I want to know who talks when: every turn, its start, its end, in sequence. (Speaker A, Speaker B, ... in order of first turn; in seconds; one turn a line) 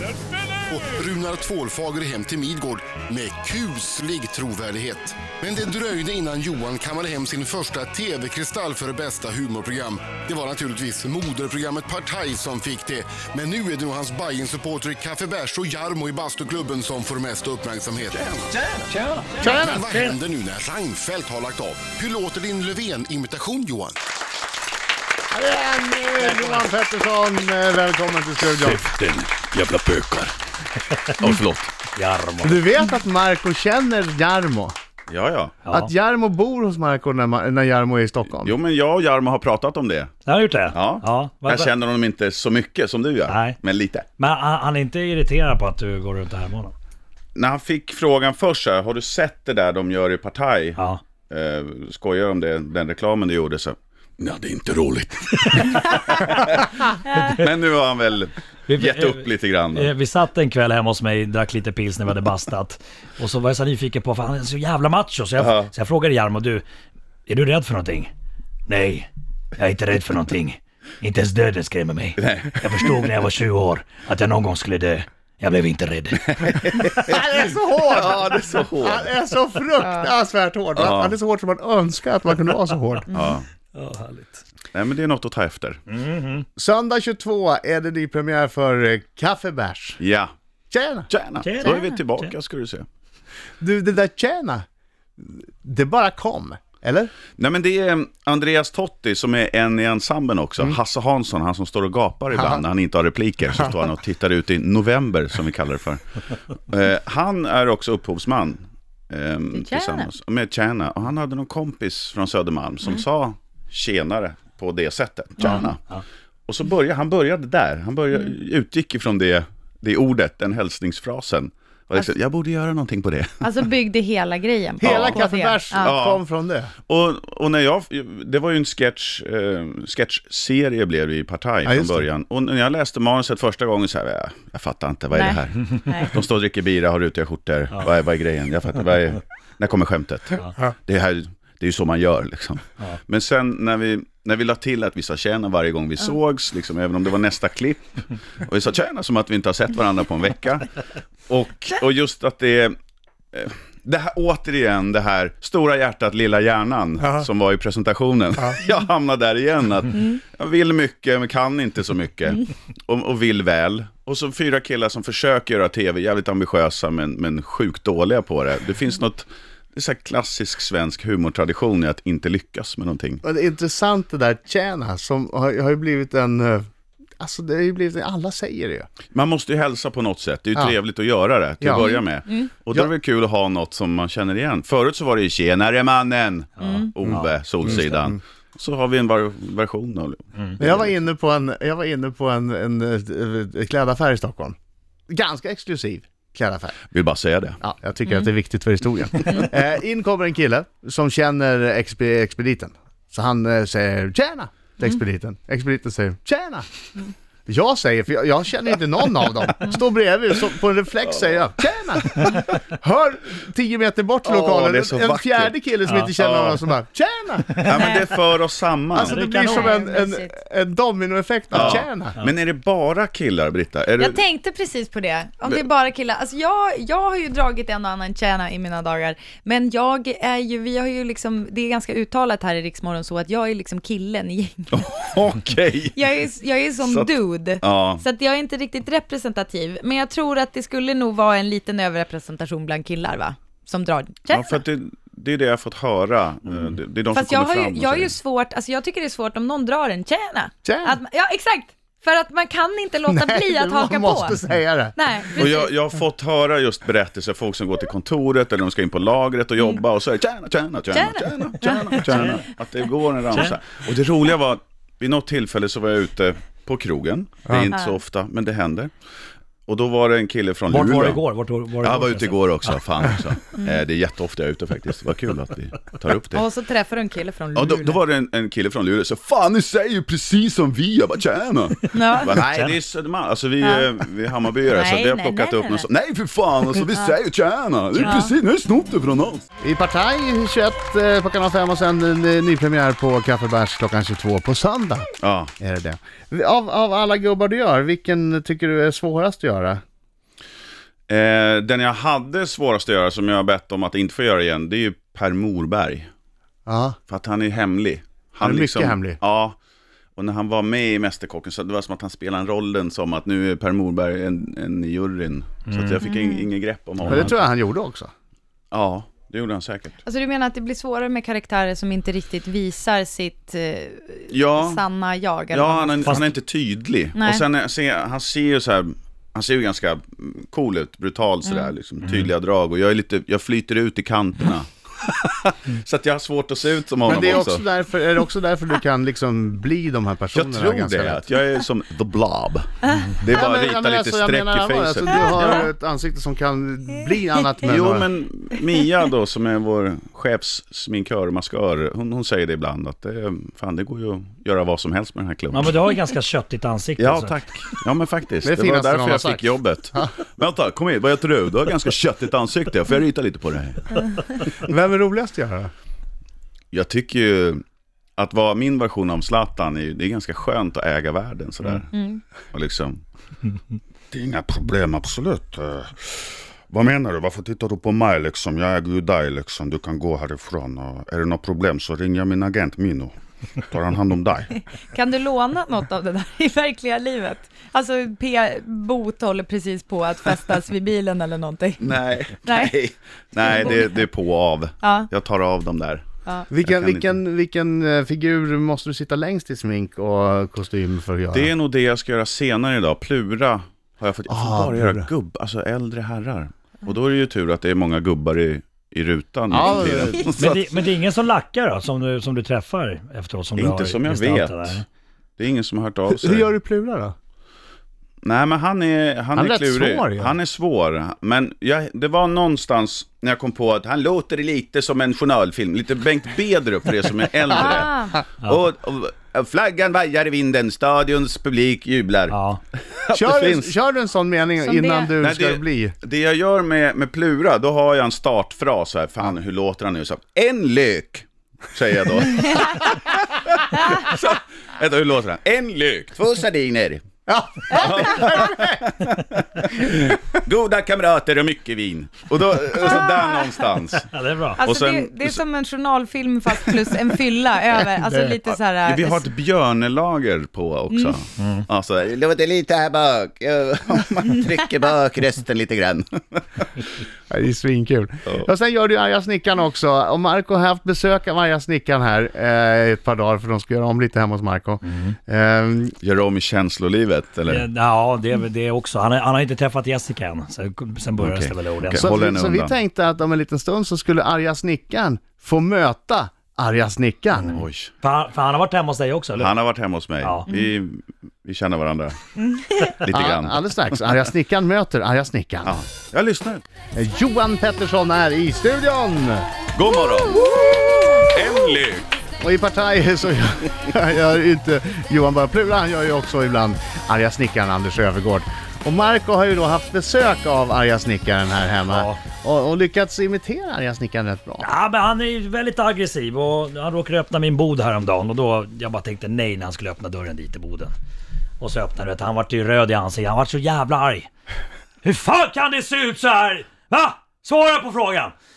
Speaker A: 0.3-18.5
Speaker B: 18.5-20.1
Speaker A: 19.4-24.0
Speaker C: 19.4-19.8
Speaker C: 25.3-28.9
Speaker B: 26.2-26.6
Speaker B: 28.6-30.3
Speaker D: 31.2-31.7
Speaker B: 31.9-32.6
Speaker C: 32.4-34.7
Speaker D: 35.1-35.6
Speaker B: 35.6-35.9
Speaker C: 35.7-38.5
Speaker D: 38.4-40.1
Speaker B: 40.2-41.7
Speaker D: 40.7-44.0
Speaker B: 43.3-43.6
Speaker B: 44.2-46.7
Speaker D: 47.3-59.9
Speaker E: 57.1-57.4
Speaker B: 58.7-66.6
Speaker D: 65.4-65.7
Speaker B: 67.3-68.1
Speaker B: 68.7-76.8
Speaker D: 72.2-72.8
Speaker D: 76.4-77.2
Speaker C: 77.0-83.1
Speaker D: 77.9-79.1
Speaker E: 79.8-80.1
Speaker D: 80.8-81.1
Speaker D: 83.1-83.4
Speaker B: 83.7-84.4
Speaker D: 84.7-85.8
Speaker B: 85.9-86.5
Speaker C: 86.6-90.0
Speaker D: 90.0-90.3
Speaker C: 90.7-91.1
Speaker D: 91.1-92.9
Speaker B: 91.4-92.3
Speaker E: 91.6-91.9
Speaker C: 93.6-94.6
Speaker C: 95.2-97.1
Speaker D: 97.4-106.0
Speaker C: 102.3-102.6
Speaker D: 106.7-115.8
Speaker E: 109.5-110.1
Speaker B: 115.4-116.0
Speaker D: 116.5-123.5
Speaker E: 123.4-125.9
Speaker C: 124.8-126.7
Speaker D: 124.8-125.2
Speaker D: 125.7-126.2
Speaker D: 126.9-150.7
Speaker C: 131.6-132.1
Speaker E: 135.1-136.2
Speaker D: 151.3-152.8
Speaker D: 153.3-173.2
Speaker C: 173.2-176.6
Speaker C: 177.2-178.9
Speaker D: 179.1-190.9
Speaker C: 181.6-181.9
Speaker E: 181.8-182.5
Speaker E: 186.6-186.9
Speaker C: 187.6-188.2
Speaker C: 190.6-194.6
Speaker C: 195.1-196.8
Speaker D: 196.9-197.6
Speaker C: 197.6-206.7
Speaker C: 207.5-217.7
Speaker D: 212.2-212.4
Speaker D: 214.2-215.5
Speaker D: 216.2-216.6
Speaker D: 217.6-219.2
Speaker E: 217.7-218.1
Speaker C: 218.9-222.2
Speaker E: 219.1-220.3
Speaker B: 219.2-219.7
Speaker D: 221.5-224.2
Speaker B: 221.6-222.3
Speaker E: 224.0-235.0
Speaker D: 234.7-236.0
Speaker E: 235.9-244.6
Speaker D: 236.8-238.0
Speaker D: 244.3-248.1
Speaker E: 247.1-254.3
Speaker C: 250.6-251.0
Speaker C: 253.1-255.0
Speaker E: 254.9-255.7
Speaker D: 255.3-268.9
Speaker E: 260.9-262.4
Speaker E: 267.7-268.0
Speaker D: 269.7-271.2
Speaker B: 270.7-272.8
Speaker D: 271.8-276.5
Speaker E: 273.5-273.8
Speaker E: 276.3-278.0
Speaker D: 277.5-289.4
Speaker E: 281.9-282.4
Speaker B: 282.4-282.8
Speaker E: 283.6-283.9
Speaker E: 284.6-285.9
Speaker E: 286.7-287.2
Speaker E: 287.9-288.3
Speaker C: 289.6-295.1
Speaker D: 295.2-295.5
Speaker C: 295.6-299.8
Speaker D: 301.1-306.1
Speaker C: 306.6-307.0
Speaker D: 307.1-309.6
Speaker C: 308.4-309.2
Speaker D: 310.1-317.4
Speaker B: 315.7-315.9
Speaker E: 316.0-316.5
Speaker B: 317.0-317.3
Speaker C: 317.1-318.1
Speaker D: 318.7-319.9
Speaker E: 320.0-326.2
Speaker D: 324.3-324.8
Speaker D: 325.5-337.6
Speaker E: 327.1-327.4
Speaker E: 331.4-331.7
Speaker B: 332.0-332.3
Speaker C: 337.1-341.2
Speaker D: 340.3-345.6
Speaker E: 342.8-343.1
Speaker C: 343.3-348.1
Speaker E: 345.1-345.6
Speaker D: 347.6-355.8
Speaker E: 348.6-349.0
Speaker B: 355.5-357.4
Speaker D: 357.0-364.0
Speaker C: 358.4-360.1
Speaker C: 364.6-365.7
Speaker D: 366.7-367.6
Speaker D: 368.2-371.9
Speaker E: 371.9-372.2
Speaker D: 372.5-373.0
Speaker D: 374.1-384.5
Speaker E: 384.5-392.8
Speaker D: 391.8-397.2
Speaker E: 393.4-393.9
Speaker E: 394.8-395.1
Speaker E: 396.2-396.5
Speaker C: 396.5-401.5
Speaker D: 401.3-410.6
Speaker C: 404.3-405.1
Speaker C: 409.5-410.7
Speaker B: 410.4-414.8
Speaker D: 413.6-414.8
Speaker D: 415.4-416.5
Speaker C: 416.1-417.1
Speaker D: 418.2-432.4
Speaker C: 419.3-420.3
Speaker E: 427.5-428.2
Speaker B: 432.3-432.6
Speaker D: 432.9-433.7
Speaker C: 433.1-435.9
Speaker E: 434.6-435.1
Speaker D: 435.1-447.0
Speaker E: 442.3-442.8
Speaker C: 447.3-448.9
Speaker D: 447.7-454.1
Speaker B: 454.0-454.6
Speaker E: 454.6-459.3
Speaker D: 454.6-455.4
Speaker C: 458.0-458.3
Speaker D: 458.5-466.8
Speaker E: 460.9-461.2
Speaker B: 461.4-461.6
Speaker C: 467.3-475.9
Speaker D: 476.0-477.6
Speaker B: 477.5-482.1
Speaker D: 481.2-482.8
Speaker C: 481.9-487.6
Speaker B: 487.4-489.5
Speaker D: 487.5-487.9
Speaker D: 489.3-492.2
Speaker B: 490.2-490.5
Speaker E: 492.4-493.0
Speaker D: 493.0-493.6
Speaker C: 493.1-495.7
Speaker D: 495.6-496.6
Speaker C: 496.9-499.5
Speaker D: 499.7-502.1
Speaker C: 502.4-514.7
Speaker B: 511.8-512.2
Speaker B: 514.6-520.9
Speaker B: 521.6-524.3
Speaker B: 525.0-528.3